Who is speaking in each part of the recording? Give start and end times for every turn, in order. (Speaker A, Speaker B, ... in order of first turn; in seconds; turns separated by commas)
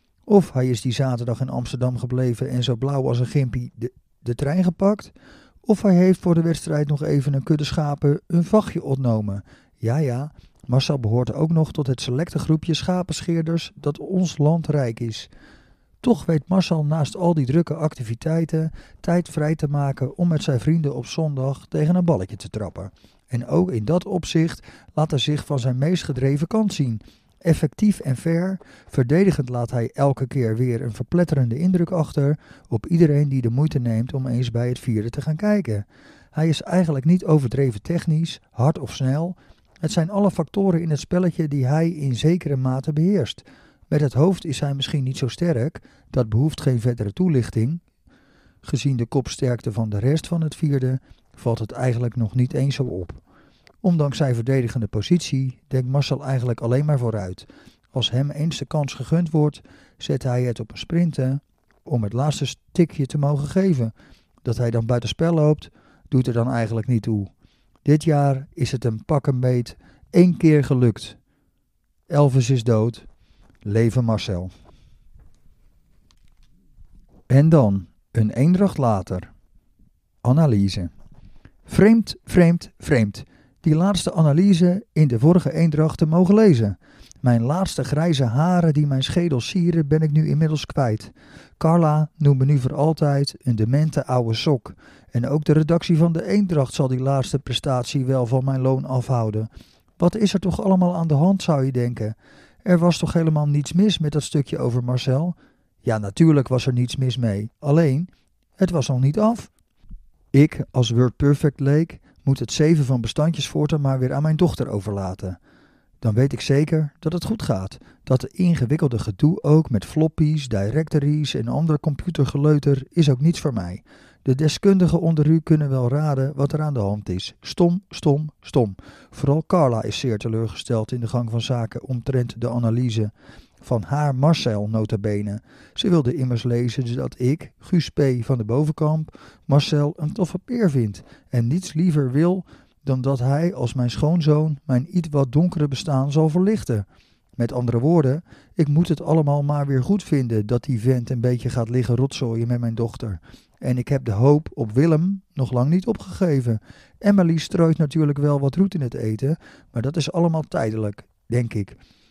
Speaker A: 0.3-5.1, Speaker A: 5.6-15.3, Speaker A: 16.0-47.8, Speaker A: 48.6-53.2, Speaker A: 53.8-63.9, Speaker A: 64.4-67.3, Speaker A: 67.8-71.2, Speaker A: 72.1-73.0, Speaker A: 73.6-74.5, Speaker A: 77.3-79.3, Speaker A: 80.2-80.9, Speaker A: 81.7-109.5, Speaker A: 110.3-115.4, Speaker A: 116.0-146.8, Speaker A: 147.4-161.7